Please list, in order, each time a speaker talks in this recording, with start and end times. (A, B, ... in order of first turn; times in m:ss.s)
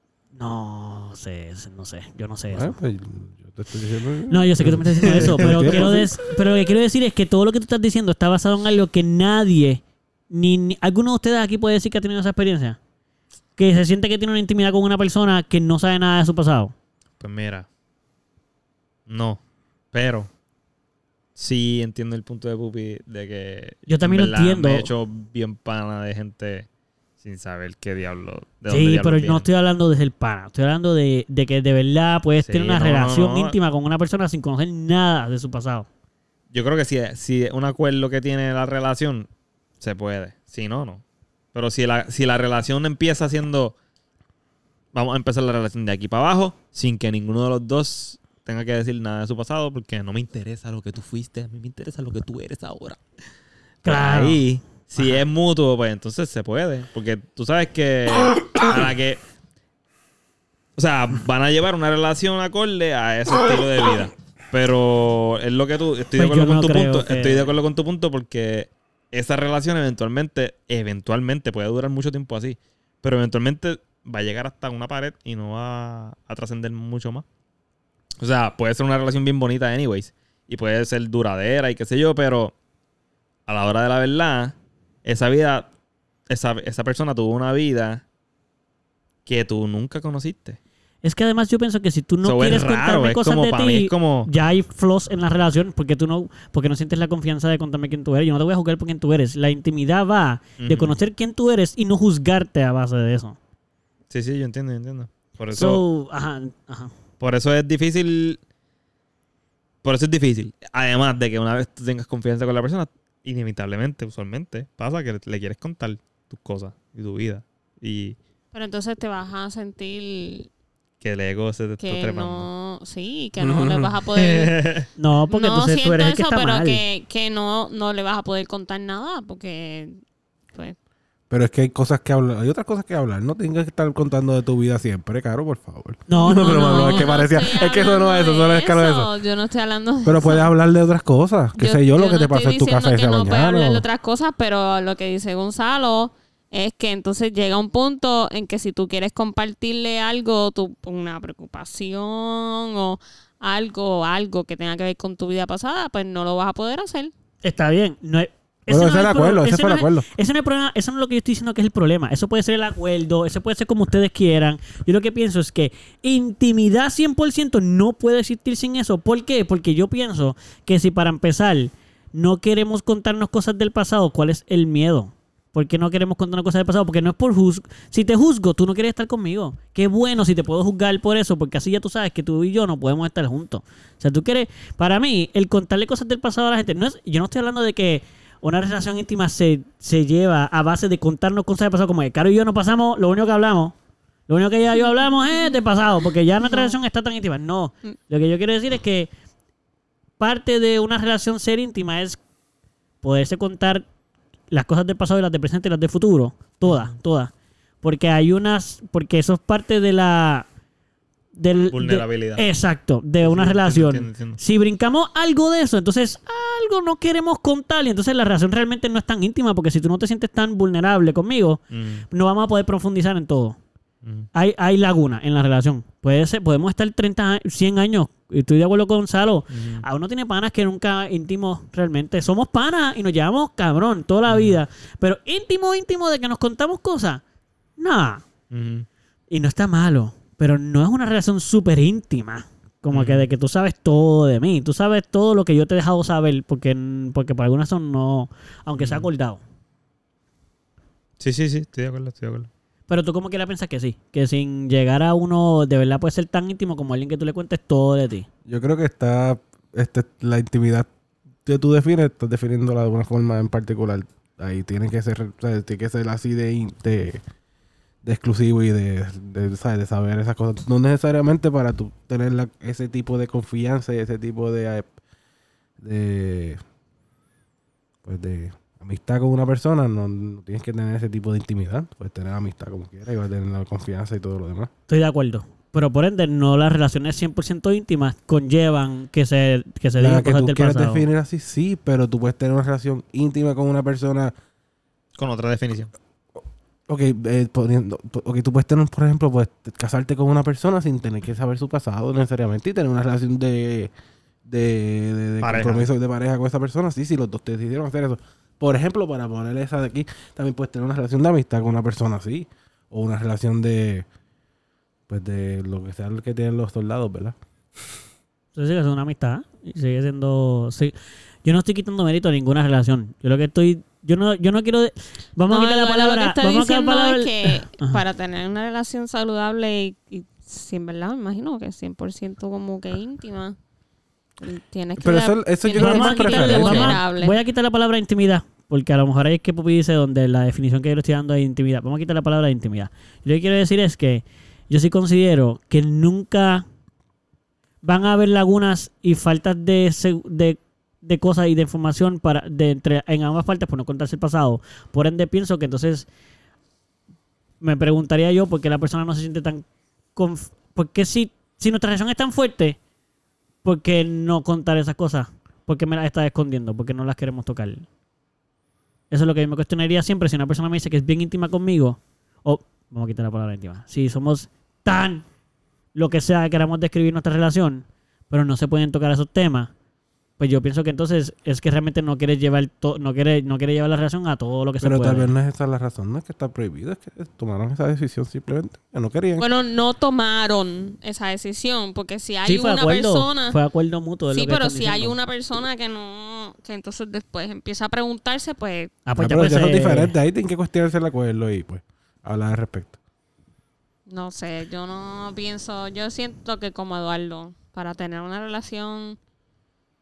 0:00.4-0:02.7 A
0:02.5-0:06.1 B
0:04.3-0:12.8 A
0:05.0-0:06.0 C
0:13.6-0:16.7 A
0:17.2-0:17.7 C
0:19.1-0:19.4 C
0:19.9-0:20.3 C
0:21.4-0:26.7 C
0:23.9-0:24.9 A
0:27.2-0:29.4 C
0:28.7-0:35.9 A
0:32.4-0:33.6 C
0:36.5-0:39.3 C
0:39.8-0:41.0 C
0:41.5-0:43.7 C
0:44.9-0:53.0 C
0:53.8-0:54.4 A
0:53.8-0:59.2 C
1:00.8-1:17.2 C
1:06.2-1:07.5 A
1:18.2-1:22.5 C
1:23.5-1:25.7 C
1:26.3-1:28.0 C
1:29.2-1:30.6 C
1:31.0-1:43.4 A
1:32.2-1:34.3 C
1:40.6-1:41.0 C
1:44.1-1:45.8 C
1:45.5-1:46.9 A
1:47.2-1:48.4 C
1:49.8-1:58.2 C
1:58.5-2:00.5 D
2:01.0-2:02.5 C
2:01.8-2:04.7 D
2:03.4-2:03.9 B
2:04.1-2:04.9 C
2:05.0-2:06.8 A
2:05.3-2:10.0 D
2:11.3-2:19.1 B
2:16.1-2:17.1 A
2:16.1-2:20.5 D
2:20.0-2:23.9 B
2:21.6-2:37.1 D
2:37.4-3:13.7 A
2:38.7-2:40.1 B
3:14.3-3:19.1 A
3:16.4-3:16.7 D
3:20.2-3:22.2 A
3:23.0-3:23.8 A
3:24.5-3:30.5 A
3:31.4-3:43.6 A
3:31.7-3:32.4 C
3:33.2-3:34.4 C
3:41.7-3:42.0 C
3:44.0-3:44.3 C
3:44.3-3:57.2 A
3:49.5-3:49.8 C
3:54.3-3:54.6 C
3:57.8-3:58.2 A
3:58.5-3:58.9 C
3:59.3-4:09.4 A
4:02.9-4:03.3 C
4:08.8-4:09.1 C
4:11.2-4:12.5 C
4:12.9-4:18.3 A
4:18.4-4:20.9 B
4:21.4-4:27.2 B
4:28.0-4:34.9 B
4:35.8-4:36.6 B
4:38.0-4:44.7 B
4:44.9-4:51.0 A
4:50.0-4:54.3 B
4:55.2-4:55.9 C
4:56.9-5:03.9 B
5:04.4-5:14.0 B
5:05.4-5:05.9 C
5:15.1-5:17.4 B
5:18.6-5:28.0 A
5:25.5-5:33.6 D
5:34.4-5:37.4 D
5:35.0-5:37.0 B
5:35.8-5:46.6 A
5:47.8-5:56.1 A
5:57.6-6:02.8 A
6:03.6-6:07.9 A
6:09.1-6:15.2 A
6:15.9-6:19.7 A
6:20.4-6:25.3 A
6:24.8-6:29.4 B
6:29.4-6:33.6 D
6:32.4-6:35.2 A
6:34.3-6:38.9 D
6:39.0-6:40.1 A
6:39.2-6:43.0 B
6:44.1-6:49.2 D